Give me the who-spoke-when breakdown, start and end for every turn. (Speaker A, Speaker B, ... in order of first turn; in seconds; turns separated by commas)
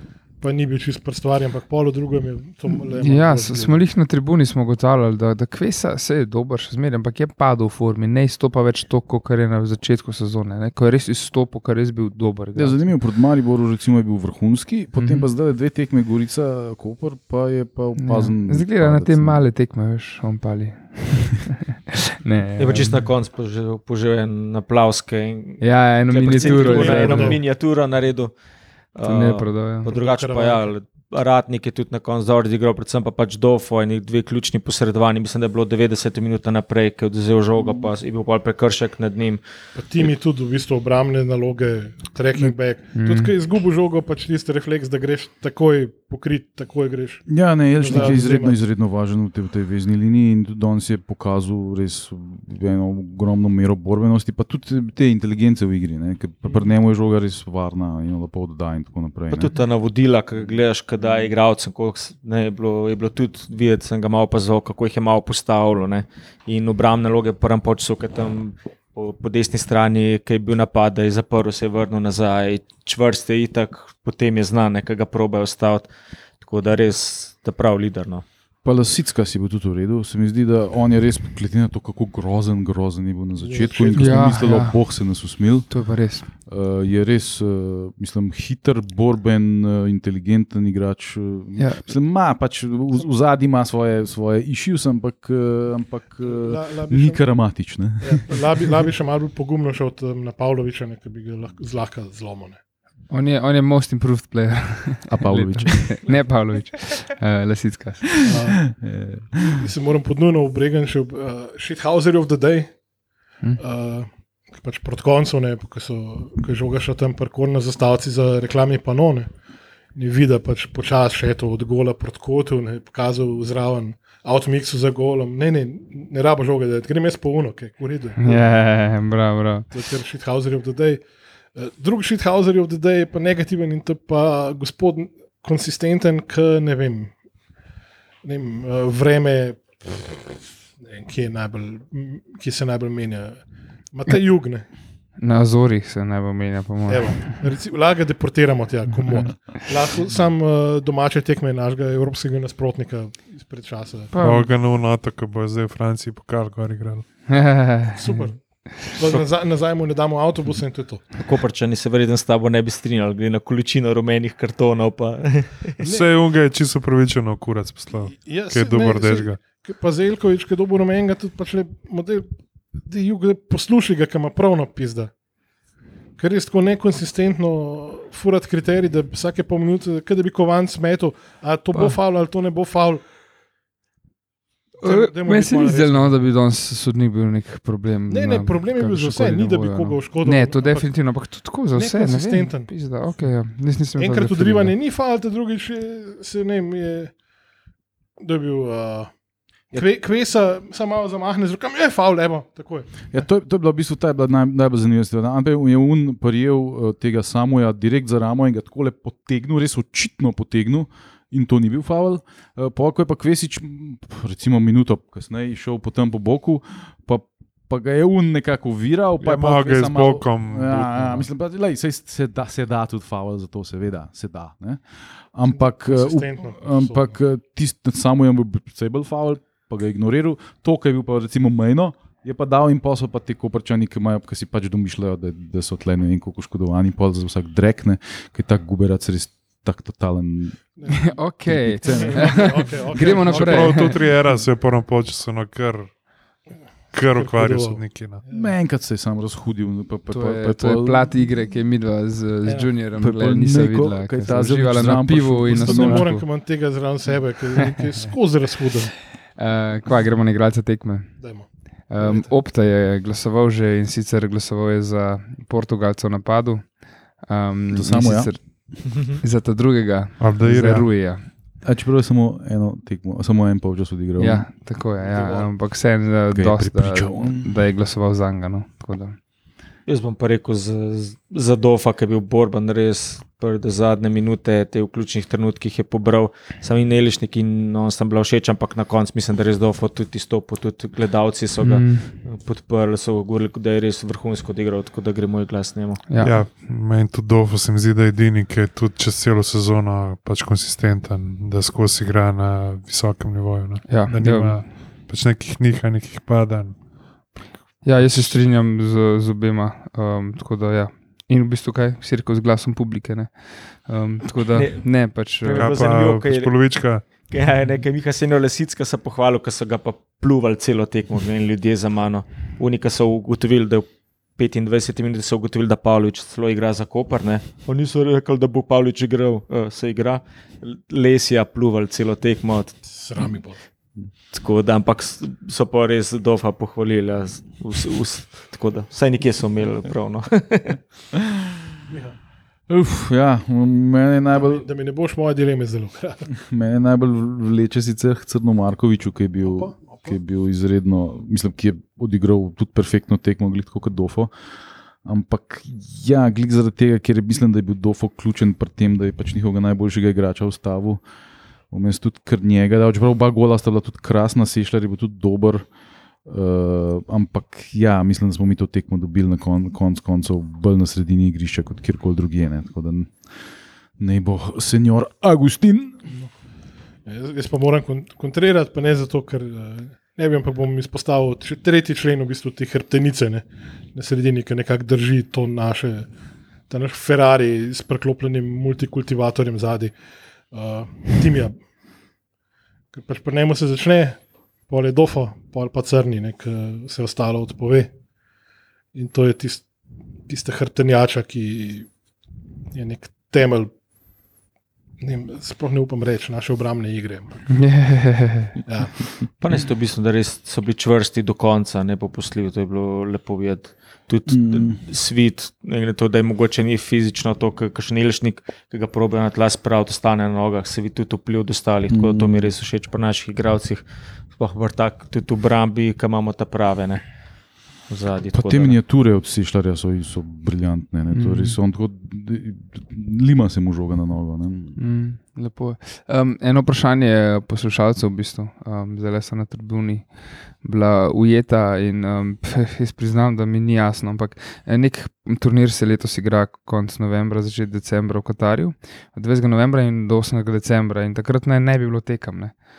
Speaker A: 0.4-3.9, Speaker B: 2.7-12.9, Speaker C: 12.5-19.4, Speaker B: 14.9-15.2, Speaker B: 18.0-21.6, Speaker B: 22.2-23.0, Speaker D: 22.6-28.3, Speaker B: 25.6-27.4, Speaker A: 26.3-27.4, Speaker D: 28.9-39.4, Speaker B: 29.0-29.9, Speaker A: 29.8-30.7, Speaker A: 39.8-48.6, Speaker B: 42.9-43.3, Speaker C: 47.3-59.5, Speaker B: 47.9-48.2, Speaker D: 59.3-75.9, Speaker D: 76.4-78.2, Speaker C: 78.6-85.7, Speaker A: 83.4-84.3, Speaker B: 83.9-84.8, Speaker B: 85.7-86.3, Speaker C: 86.5-98.4, Speaker B: 91.6-91.8, Speaker A: 96.2-97.2, Speaker A: 98.0-102.6, Speaker B: 103.1-108.2, Speaker C: 105.1-106.1, Speaker A: 108.2-108.7, Speaker C: 108.7-109.6, Speaker A: 109.4-112.7, Speaker A: 113.6-119.3, Speaker A: 119.9-128.4, Speaker B: 128.2-129.7, Speaker A: 129.7-131.0, Speaker A: 131.5-137.1, Speaker A: 138.2-140.2, Speaker A: 140.8-143.4, Speaker A: 143.9-144.7, Speaker B: 145.2-147.3, Speaker A: 146.9-154.1, Speaker B: 149.0-149.3, Speaker B: 154.1-154.5, Speaker E: 154.2-157.1, Speaker B: 157.3-158.3, Speaker A: 157.9-161.1, Speaker D: 161.2-165.8, Speaker A: 165.8-166.1, Speaker E: 165.8-169.4, Speaker A: 168.1-172.3, Speaker A: 172.8-175.1, Speaker A: 176.2-183.0, Speaker A: 184.8-186.2, Speaker B: 184.8-194.7, Speaker A: 188.1-190.9, Speaker A: 191.7-192.7, Speaker A: 194.0-197.1, Speaker A: 198.2-199.1, Speaker A: 199.7-203.2, Speaker C: 203.1-240.6, Speaker E: 219.2-221.2, Speaker A: 225.5-227.1, Speaker A: 240.8-241.2, Speaker B: 240.9-244.0, Speaker C: 241.4-242.9, Speaker A: 241.8-244.0, Speaker E: 243.1-245.9, Speaker E: 246.9-248.2, Speaker A: 247.1-248.5, Speaker C: 248.3-251.1, Speaker B: 250.1-256.2, Speaker A: 252.4-252.7, Speaker C: 252.9-256.1, Speaker A: 255.5-258.9, Speaker B: 259.4-261.2, Speaker A: 261.2-261.5, Speaker B: 261.9-266.7, Speaker A: 262.0-262.3, Speaker B: 267.2-271.2, Speaker C: 267.7-268.3, Speaker E: 270.2-270.9, Speaker C: 271.6-274.5, Speaker B: 274.2-279.2, Speaker A: 275.0-275.5, Speaker C: 276.3-277.6, Speaker D: 279.9-296.0, Speaker B: 291.6-292.1, Speaker B: 296.1-296.4, Speaker E: 296.2-306.8, Speaker B: 303.9-304.6, Speaker B: 307.8-315.7, Speaker E: 307.9-308.2, Speaker D: 314.5-332.9, Speaker E: 315.5-317.1, Speaker A: 332.9-333.6, Speaker D: 334.3-340.8, Speaker A: 341.9-342.2, Speaker C: 342.7-344.7, Speaker A: 344.3-346.3, Speaker C: 346.3-354.3, Speaker A: 349.4-350.1, Speaker C: 355.0-361.0, Speaker C: 361.7-365.7, Speaker C: 366.2-373.1, Speaker C: 374.0-376.0, Speaker A: 377.0-386.1, Speaker A: 386.7-389.9, Speaker A: 390.5-391.6, Speaker A: 392.9-397.9, Speaker A: 398.9-399.6, Speaker A: 400.3-401.9, Speaker A: 402.7-403.7, Speaker A: 405.0-407.6, Speaker B: 407.5-408.6, Speaker A: 408.7-409.1, Speaker D: 409.4-423.8, Speaker C: 414.3-414.8, Speaker C: 421.9-422.5, Speaker D: 424.4-427.0, Speaker D: 427.9-428.8, Speaker C: 428.3-434.8, Speaker B: 431.1-431.6, Speaker B: 434.8-440.1, Speaker B: 440.6-452.5